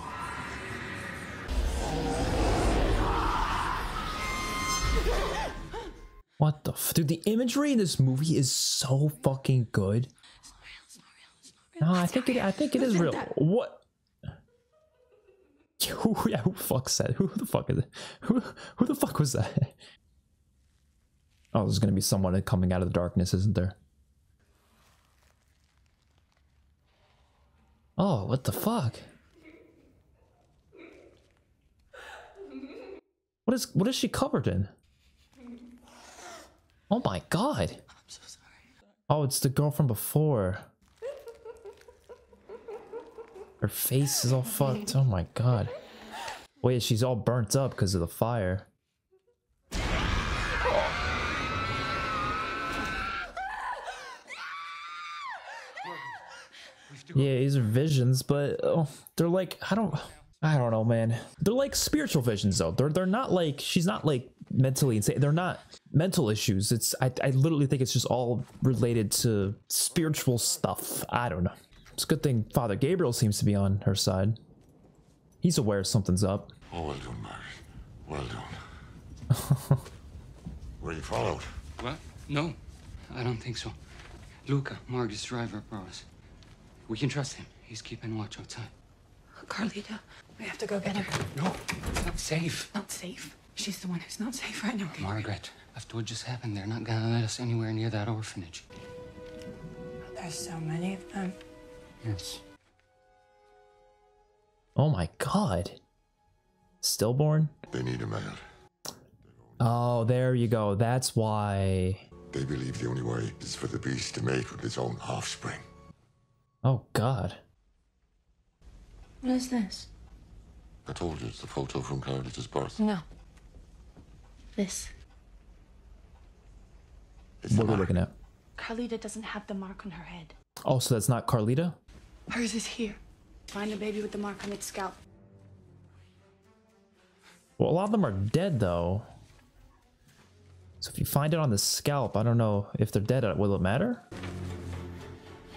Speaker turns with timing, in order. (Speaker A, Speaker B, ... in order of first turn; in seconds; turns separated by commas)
Speaker A: 6.4-10.1, Speaker B: 11.8-13.3, Speaker A: 11.8-13.9, Speaker A: 15.8-19.8, Speaker A: 21.5-23.8, Speaker A: 28.0-29.0, Speaker A: 33.5-34.7, Speaker A: 36.9-37.8, Speaker A: 39.1-40.7, Speaker A: 43.6-45.7, Speaker A: 46.6-48.7, Speaker A: 57.1-74.4, Speaker A: 75.4-76.5, Speaker C: 76.7-78.6, Speaker A: 79.3-79.8, Speaker C: 80.8-81.5, Speaker D: 81.8-82.6, Speaker D: 83.1-83.8, Speaker D: 84.5-86.1, Speaker D: 86.9-88.7, Speaker B: 89.4-91.3, Speaker D: 91.3-92.7, Speaker B: 92.7-95.2, Speaker D: 95.0-98.7, Speaker B: 100.1-101.4, Speaker D: 102.0-102.4, Speaker A: 104.8-105.8, Speaker A: 106.8-107.5, Speaker C: 107.7-108.4, Speaker C: 109.2-109.6, Speaker A: 109.6-112.0, Speaker C: 112.3-115.7, Speaker A: 116.6-117.4, Speaker B: 119.2-119.9, Speaker C: 120.9-122.8, Speaker B: 122.8-123.0, Speaker B: 124.6-124.9, Speaker C: 127.4-127.9, Speaker A: 127.5-128.1, Speaker B: 128.6-130.3, Speaker A: 130.7-131.8, Speaker B: 132.3-133.0, Speaker B: 133.5-135.0, Speaker A: 137.6-139.1, Speaker A: 140.8-144.0